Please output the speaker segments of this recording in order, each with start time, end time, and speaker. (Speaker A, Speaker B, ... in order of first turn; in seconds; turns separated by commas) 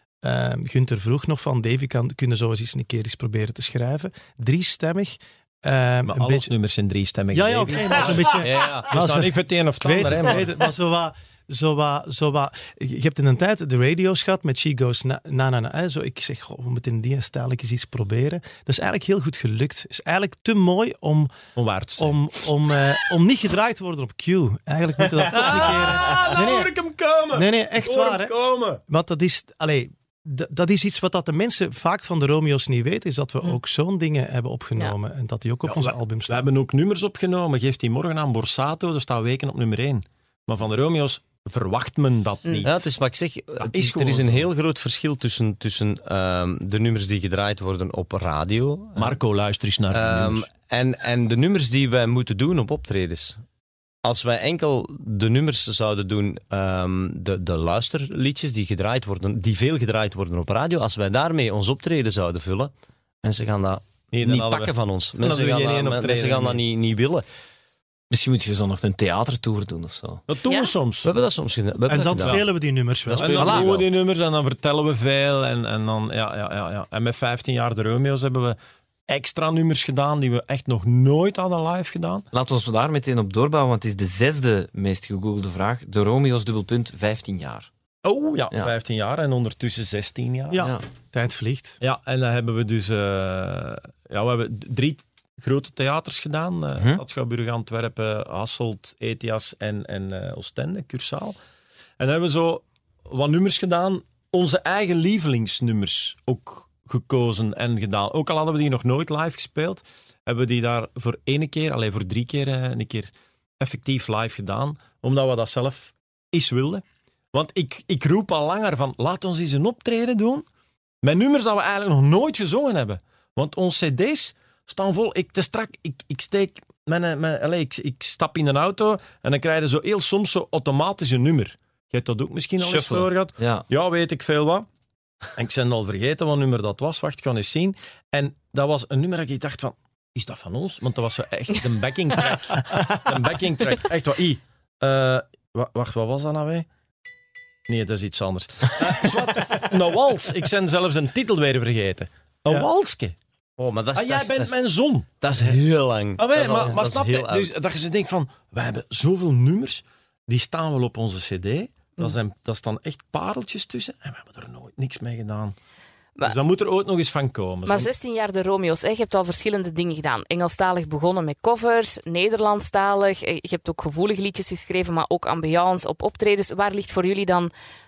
Speaker A: 0.2-6.5, Speaker B: 6.0-10.6, Speaker A: 7.3-21.3, Speaker C: 8.3-8.9, Speaker B: 21.6-22.2, Speaker A: 22.0-26.7, Speaker B: 25.3-28.8, Speaker A: 27.3-28.3, Speaker A: 28.9-36.5, Speaker B: 35.6-42.9, Speaker C: 42.6-49.2, Speaker B: 43.6-44.5, Speaker B: 49.0-50.5, Speaker C: 49.9-53.4, Speaker C: 54.0-62.7, Speaker C: 63.2-67.2, Speaker B: 64.1-66.6, Speaker D: 68.1-70.2, Speaker B: 70.3-71.1, Speaker E: 70.5-70.7, Speaker C: 71.0-72.4, Speaker A: 71.9-73.6, Speaker B: 72.1-72.4, Speaker C: 73.0-73.8, Speaker B: 73.2-82.2, Speaker D: 73.4-73.7, Speaker D: 82.3-87.7, Speaker B: 88.0-90.7, Speaker A: 90.5-91.8, Speaker D: 90.6-90.8, Speaker B: 91.8-101.3, Speaker D: 96.8-97.0, Speaker B: 102.0-120.5, Speaker B: 121.0-134.7, Speaker D: 132.6-133.7, Speaker B: 135.3-146.7, Speaker B: 147.7-153.2, Speaker C: 153.6-154.5, Speaker B: 153.9-155.6, Speaker C: 155.2-157.5, Speaker B: 156.2-165.5, Speaker B: 166.2-167.9, Speaker E: 167.7-177.5